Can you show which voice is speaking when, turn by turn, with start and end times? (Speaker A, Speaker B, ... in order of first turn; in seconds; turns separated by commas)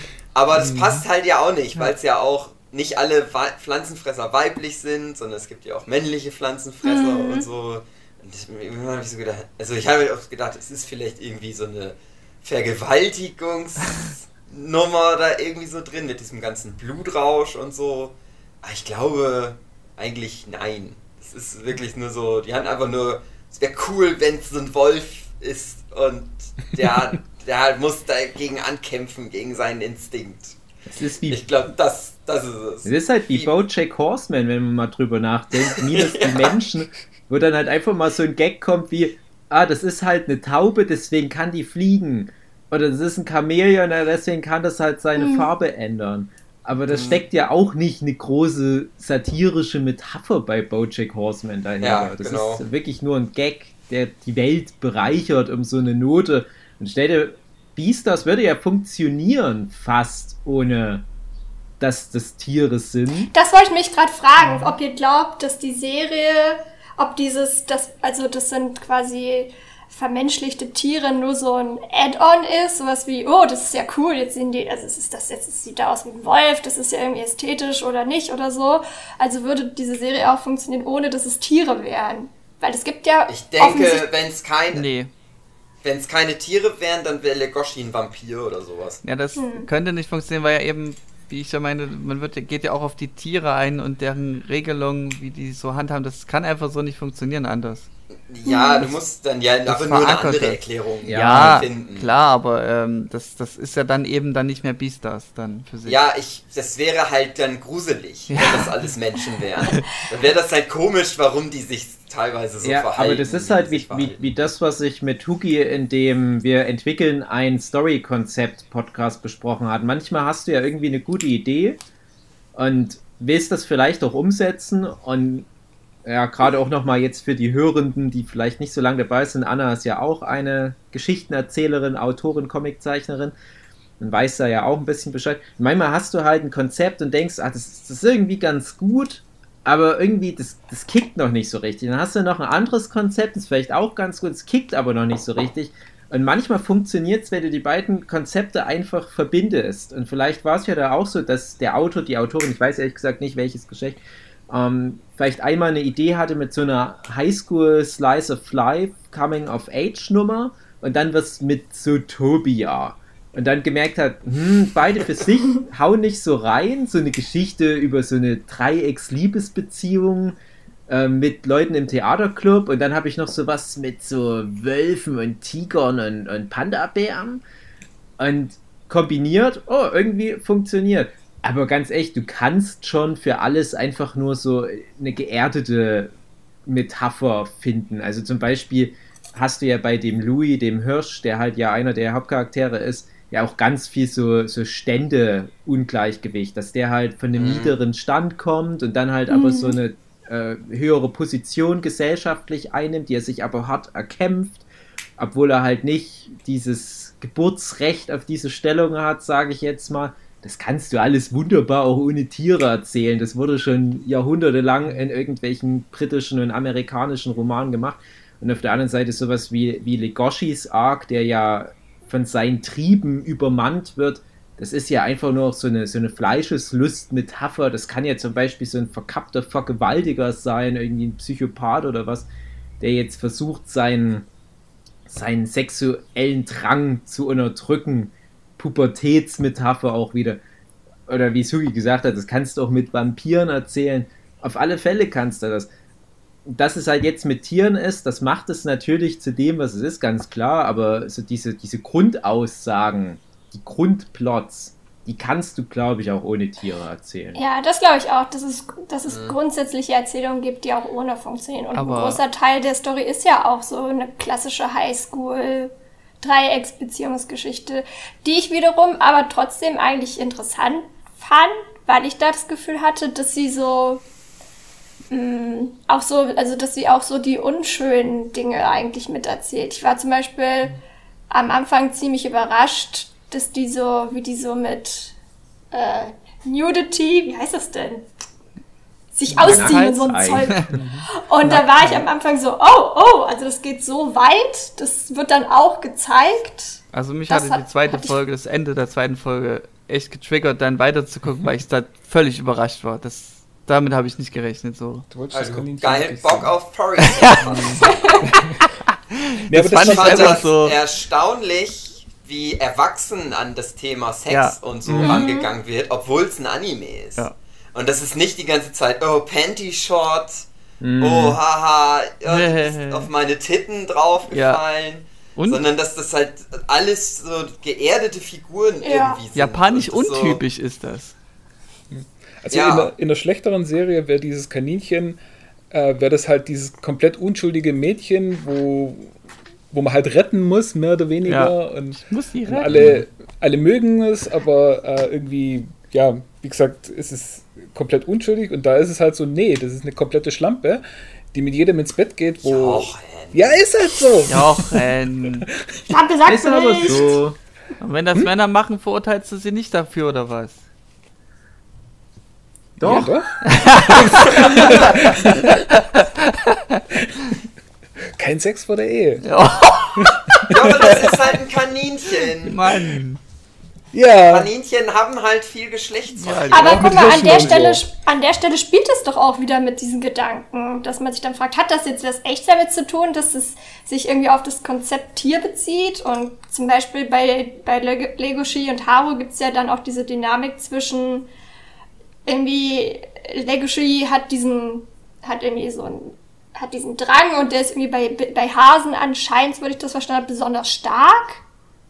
Speaker A: 0.3-30.6, Speaker B: 0.6-1.0, Speaker C: 6.8-7.5, Speaker D: 30.9-31.4, Speaker A: 31.3-33.5, Speaker D: 32.8-61.0, Speaker A: 35.8-36.5, Speaker C: 45.2-45.5, Speaker A: 51.8-52.6, Speaker D: 61.8-63.3, Speaker C: 63.3-84.0, Speaker B: 64.5-64.7, Speaker A: 83.3-84.9, Speaker E: 84.7-85.1, Speaker A: 85.8-89.0, Speaker E: 89.0-97.9, Speaker C: 89.3-89.7, Speaker A: 98.3-102.1, Speaker C: 98.5-98.9, Speaker E: 99.7-106.0, Speaker D: 101.0-101.7, Speaker A: 105.8-114.2, Speaker E: 108.3-108.7, Speaker D: 112.6-121.8, Speaker D: 122.5-125.5, Speaker D: 126.0-133.3, Speaker D: 134.0-177.4, Speaker D: 178.2-186.1, Speaker D: 186.7-204.6, Speaker A: 197.3-197.8, Speaker C: 199.3-199.8, Speaker D: 205.2-232.3, Speaker D: 232.8-234.2, Speaker D: 235.1-240.4, Speaker D: 241.1-245.7, Speaker D: 246.4-257.4, Speaker C: 257.3-274.0, Speaker A: 259.1-259.3, Speaker E: 261.7-262.2, Speaker C: 275.1-280.8, Speaker C: 281.3-285.1, Speaker C: 285.7-288.1, Speaker C: 289.1-298.2, Speaker D: 289.3-290.6, Speaker E: 289.4-290.7, Speaker B: 290.7-291.1, Speaker E: 291.4-292.0, Speaker E: 296.9-305.1, Speaker B: 305.1-306.6, Speaker A: 305.3-308.3, Speaker E: 307.1-307.8, Speaker B: 307.4-308.6, Speaker C: 307.8-308.3, Speaker B: 309.5-310.5, Speaker E: 309.5-310.8, Speaker A: 309.8-320.5, Speaker E: 314.3-314.6, Speaker D: 314.9-315.2, Speaker C: 315.0-315.5, Speaker D: 320.8-321.4, Speaker A: 321.0-330.4, Speaker E: 322.3-323.1, Speaker E: 324.3-324.6, Speaker E: 325.4-325.6, Speaker C: 328.8-329.2, Speaker E: 329.3-331.1, Speaker B: 331.9-335.2, Speaker A: 332.5-332.9, Speaker B: 335.7-339.2, Speaker B: 339.7-354.9, Speaker E: 341.2-342.8, Speaker A: 352.4-353.7, Speaker E: 354.3-355.5, Speaker B: 355.4-355.6, Speaker C: 355.9-357.1, Speaker D: 356.2-357.4, Speaker E: 357.8-360.6, Speaker D: 362.8-363.1, Speaker B: 362.8-365.7, Speaker E: 362.8-365.1, Speaker B: 366.3-367.3, Speaker B: 368.1-369.3, Speaker E: 369.2-371.2, Speaker B: 369.9-371.1, Speaker A: 370.5-372.6, Speaker E: 372.4-373.2, Speaker B: 372.7-373.0, Speaker B: 373.9-374.5, Speaker A: 374.1-376.9, Speaker E: 376.1-377.5, Speaker C: 376.5-391.3, Speaker B: 376.6-377.8, Speaker C: 392.2-401.4